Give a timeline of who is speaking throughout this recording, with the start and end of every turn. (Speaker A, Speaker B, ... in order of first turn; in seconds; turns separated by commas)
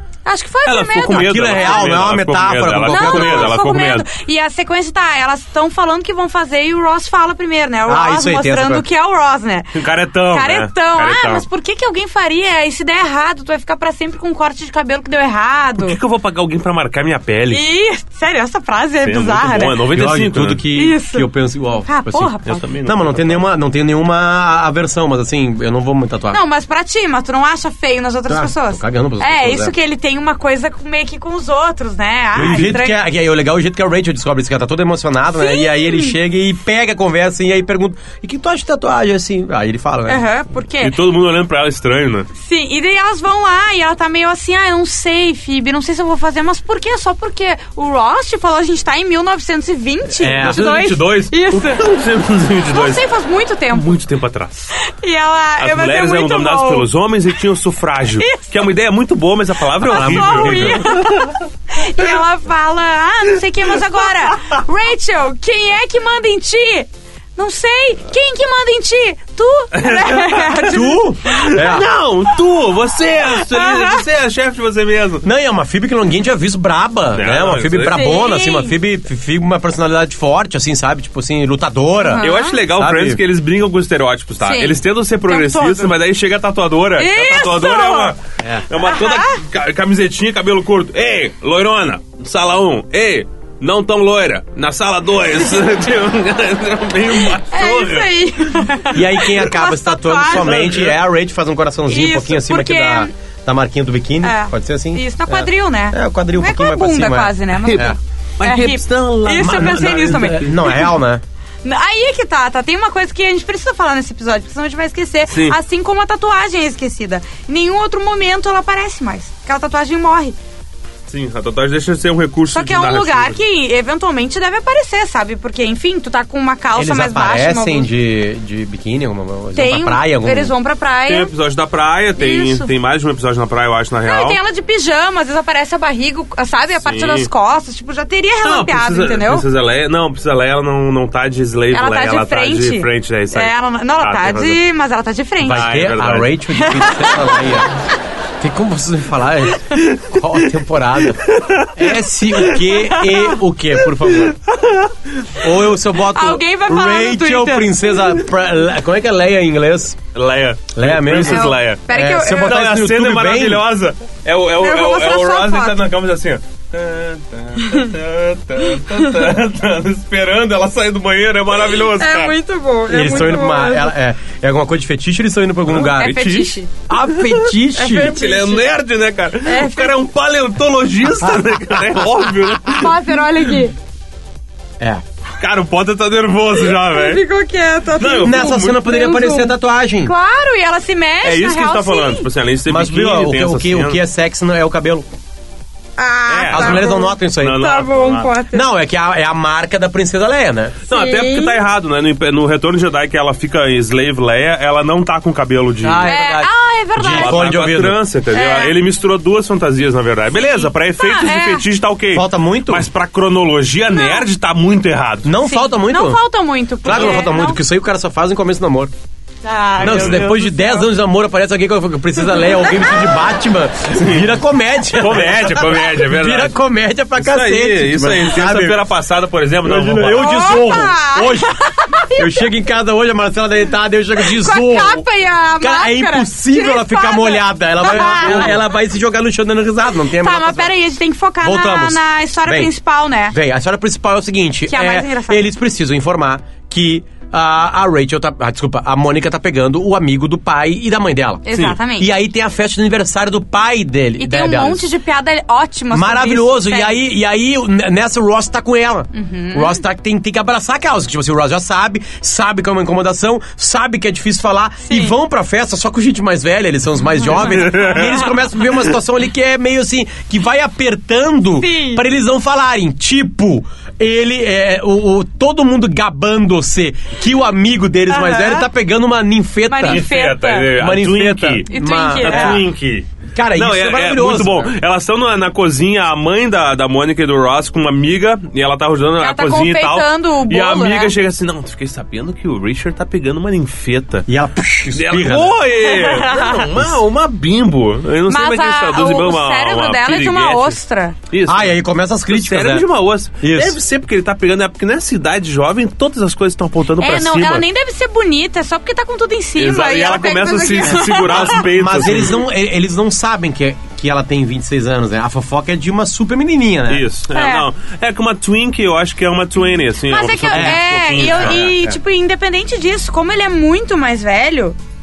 Speaker A: 0.2-2.0, Speaker B: 0.7-4.1, Speaker C: 1.1-3.6, Speaker A: 2.9-9.8, Speaker C: 7.9-8.8, Speaker B: 9.7-11.4, Speaker A: 10.3-16.0, Speaker B: 15.8-17.6, Speaker A: 17.5-19.8, Speaker B: 19.0-20.6, Speaker C: 19.9-26.4, Speaker A: 20.7-21.3, Speaker A: 21.8-22.6, Speaker B: 22.4-23.4, Speaker A: 26.3-33.0, Speaker C: 28.3-29.7, Speaker C: 32.3-40.2, Speaker A: 35.4-36.1, Speaker A: 40.1-40.9, Speaker B: 40.8-42.3, Speaker A: 42.4-51.8, Speaker C: 50.2-50.6, Speaker B: 50.3-53.0, Speaker A: 52.7-54.0, Speaker B: 53.7-54.7, Speaker A: 54.8-56.9, Speaker B: 55.6-61.4, Speaker A: 58.2-58.5, Speaker C: 59.8-60.9, Speaker A: 59.8-71.6, Speaker B: 69.7-70.7, Speaker C: 70.7-71.9, Speaker B: 71.3-75.2, Speaker A: 73.3-74.0, Speaker C: 75.2-83.2, Speaker B: 77.1-78.0, Speaker A: 77.9-78.7, Speaker A: 82.0-82.6, Speaker B: 82.2-98.7, Speaker A: 84.4-85.9, Speaker A: 87.0-88.1, Speaker A: 88.8-89.4, Speaker A: 95.3-95.7, Speaker A: 97.3-100.6, Speaker C: 98.9-108.0, Speaker B: 100.3-101.0, Speaker A: 101.9-103.1, Speaker A: 104.2-110.9, Speaker B: 107.6-110.5, Speaker C: 109.3-111.2, Speaker A: 111.6-120.3, Speaker B: 115.3-115.6, Speaker B: 121.1-123.4, Speaker A: 122.5-127.9, Speaker C: 126.7-130.5, Speaker A: 129.5-131.3, Speaker B: 131.1-134.4, Speaker A: 132.2-132.7, Speaker A: 134.0-139.4, Speaker B: 136.8-137.3, Speaker B: 138.4-144.6, Speaker A: 141.7-145.7, Speaker C: 145.4-147.7, Speaker B: 145.5-146.4, Speaker A: 146.5-147.6, Speaker C: 148.4-154.3, Speaker B: 149.7-150.2, Speaker B: 151.2-152.7, Speaker A: 152.8-153.3, Speaker B: 154.0-155.3, Speaker C: 155.4-160.0, Speaker A: 156.1-158.0, Speaker B: 160.1-172.3, Speaker C: 160.8-163.7, Speaker A: 161.2-162.6, Speaker A: 164.6-165.8, Speaker A: 167.6-167.9, Speaker A: 171.9-173.9, Speaker C: 172.9-178.2, Speaker B: 175.7-176.5, Speaker A: 175.9-176.7, Speaker B: 177.0-182.9, Speaker A: 177.7-178.7, Speaker A: 179.4-179.9, Speaker C: 181.3-181.8, Speaker A: 182.7-183.7, Speaker B: 185.4-187.2, Speaker A: 186.6-192.3, Speaker B: 188.0-188.8, Speaker C: 188.2-190.1, Speaker B: 191.2-194.0, Speaker C: 192.7-195.1, Speaker A: 196.0-198.7, Speaker B: 196.3-198.3, Speaker C: 196.5-197.7, Speaker C: 198.5-200.8, Speaker A: 200.9-201.6, Speaker B: 200.9-206.1, Speaker C: 205.8-208.0, Speaker A: 206.1-207.4, Speaker B: 207.0-215.3, Speaker A: 208.3-208.8, Speaker A: 210.3-211.7, Speaker C: 212.1-212.9, Speaker A: 213.9-214.3, Speaker C: 215.2-216.2, Speaker A: 215.4-217.6, Speaker C: 216.8-218.9, Speaker B: 216.9-217.2, Speaker A: 219.4-220.9, Speaker C: 219.8-228.8, Speaker B: 219.8-220.2, Speaker A: 222.3-222.9, Speaker B: 224.0-224.2, Speaker B: 224.9-226.5, Speaker B: 227.2-230.6, Speaker C: 229.6-231.6, Speaker A: 230.1-232.5, Speaker C: 232.1-235.0, Speaker A: 234.2-238.6, Speaker C: 235.6-240.7, Speaker B: 238.0-238.5, Speaker A: 240.0-243.3, Speaker C: 241.4-242.7, Speaker C: 243.3-254.8, Speaker A: 244.7-245.5, Speaker A: 251.4-252.1, Speaker A: 254.2-257.0, Speaker C: 255.9-280.0, Speaker A: 259.1-259.8, Speaker A: 264.9-265.1, Speaker A: 267.1-268.3, Speaker B: 267.4-268.2, Speaker A: 271.6-272.0, Speaker A: 278.1-278.7, Speaker A: 279.7-280.7, Speaker B: 279.8-281.7, Speaker C: 280.7-282.6, Speaker A: 281.7-282.6, Speaker B: 282.2-294.2, Speaker C: 283.3-284.7, Speaker A: 289.2-291.1, Speaker C: 294.3-295.6, Speaker B: 294.9-300.8, Speaker A: 295.8-296.7, Speaker A: 298.3-301.1, Speaker B: 301.3-301.8, Speaker C: 301.4-302.9, Speaker B: 302.3-307.6, Speaker C: 303.4-303.8, Speaker A: 307.0-311.6, Speaker B: 309.6-312.4, Speaker C: 310.9-317.1, Speaker B: 316.9-321.7, Speaker A: 317.3-317.7, Speaker A: 320.1-324.8, Speaker C: 320.5-322.0